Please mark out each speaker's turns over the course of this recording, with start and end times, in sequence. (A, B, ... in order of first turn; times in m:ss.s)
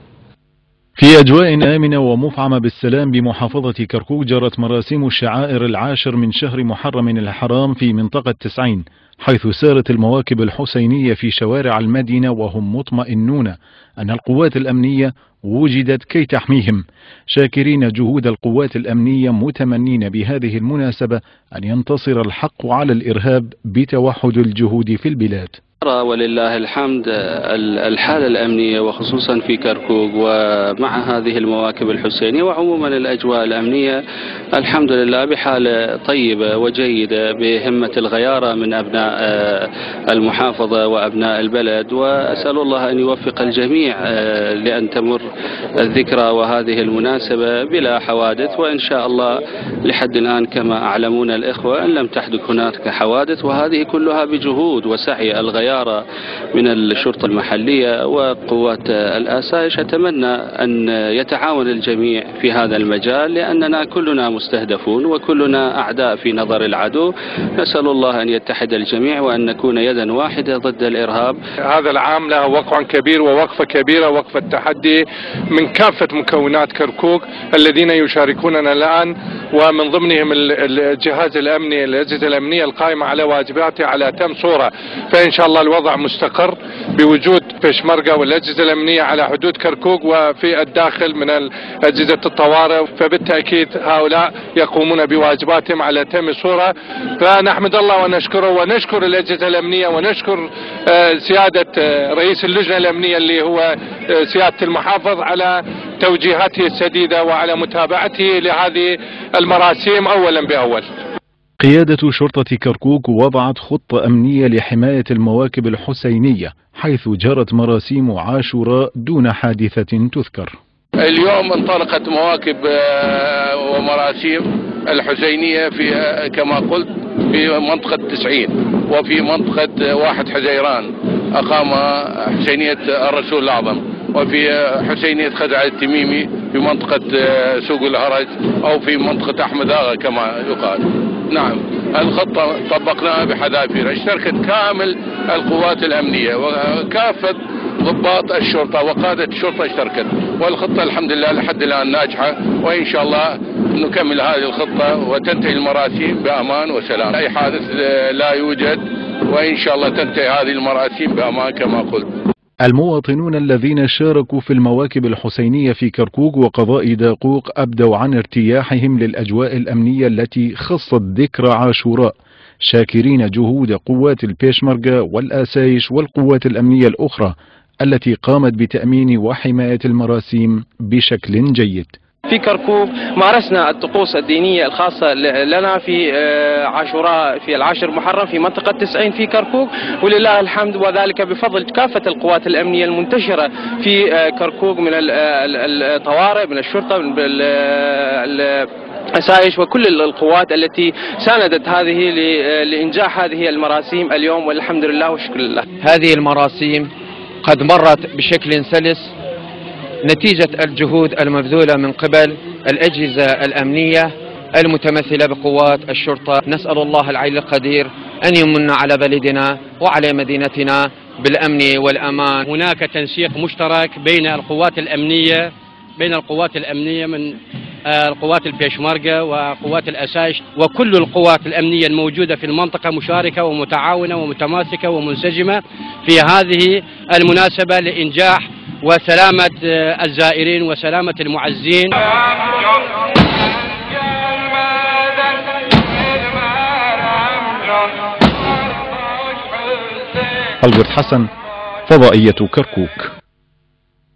0:01.0-0:25.6 A
0:25.8-0:34.0 B
0:34.5-0:56.0 B
0:56.5-1:11.4 B
1:11.7-1:50.8 C
1:51.6-2:00.6 A
2:01.0-2:42.1 D
2:42.6-3:01.9 A
3:02.3-3:25.7 E
3:25.8-3:26.9 F
3:27.4-3:29.1 F
3:30.1-3:42.4 F
3:42.5-3:47.4 G
3:47.9-4:01.9 G
4:10.6-4:11.3 A
4:11.9-4:13.1 A